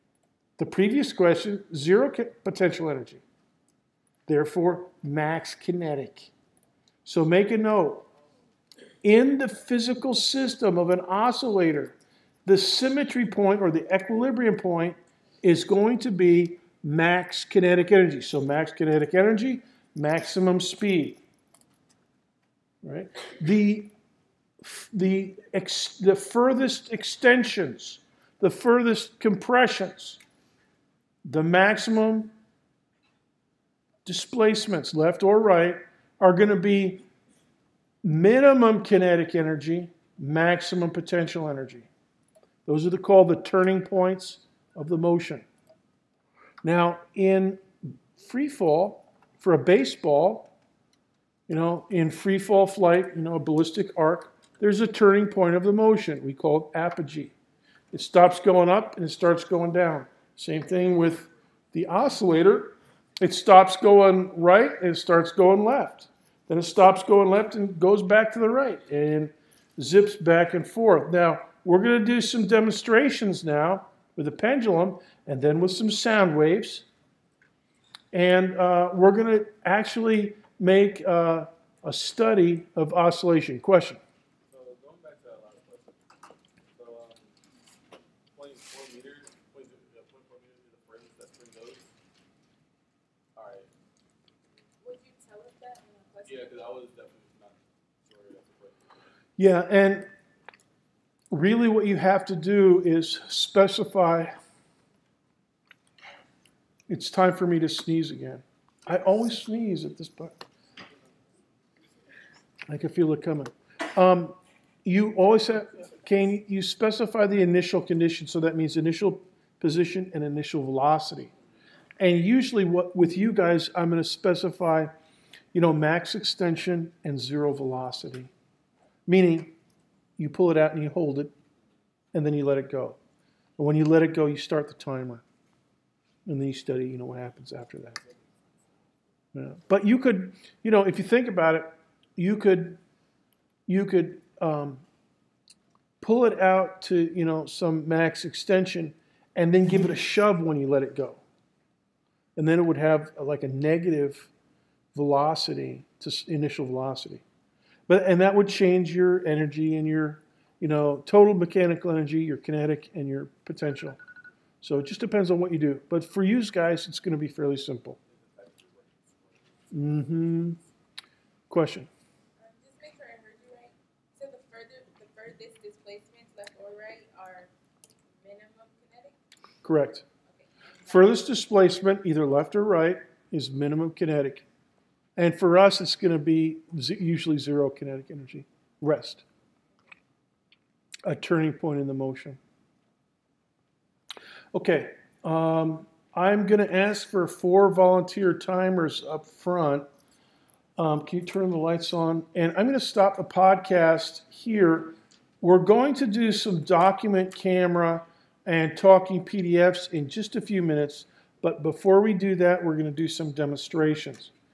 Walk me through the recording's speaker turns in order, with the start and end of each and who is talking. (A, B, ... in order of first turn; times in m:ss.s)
0:00.6-0:03.2 A
0:04.3-0:06.3 A
0:07.0-0:08.1 A
0:09.0-0:21.2 A
0:22.8-0:23.9 A
0:24.6-0:30.2 A
0:31.2-0:32.3 A
0:34.0-0:37.0 A
0:38.0-0:41.9 A
0:42.7-0:45.5 A
0:46.6-0:50.5 A
0:51.5-0:57.3 A
0:57.9-1:16.9 A
1:18.1-1:24.0 A
1:24.5-1:26.0 B
1:26.7-1:27.3 B
1:28.3-1:31.9 B
1:33.4-1:33.7 B
1:34.8-1:36.6 C
1:36.2-1:38.8 B
1:39.4-1:40.1 A
1:41.3-1:44.4 A
1:46.9-1:50.4 A
1:52.7-2:01.3 A
2:02.0-2:04.9 A
2:05.5-2:08.3 A
2:09.1-2:09.6 A
2:10.2-2:11.3 A
2:12.1-2:13.0 A
2:13.6-2:15.2 A
2:16.3-2:18.0 A
2:17.9-2:18.7 B
2:19.4-2:22.8 A
2:23.7-2:24.8 A
2:26.0-2:31.2 A
2:32.4-2:34.3 A
2:34.9-2:37.2 A
2:37.9-2:44.0 A
2:44.6-2:48.0 A
2:48.1-2:50.5 B
2:49.7-2:50.6 A
2:51.5-2:51.9 A
2:52.4-2:57.5 C
2:58.1-2:59.2 C
2:59.6-3:00.0 A
3:00.3-3:01.1 C
3:00.9-3:04.4 A
3:05.2-3:09.2 A
3:11.0-3:12.4 A
3:14.5-3:19.9 A
3:20.8-3:34.3 A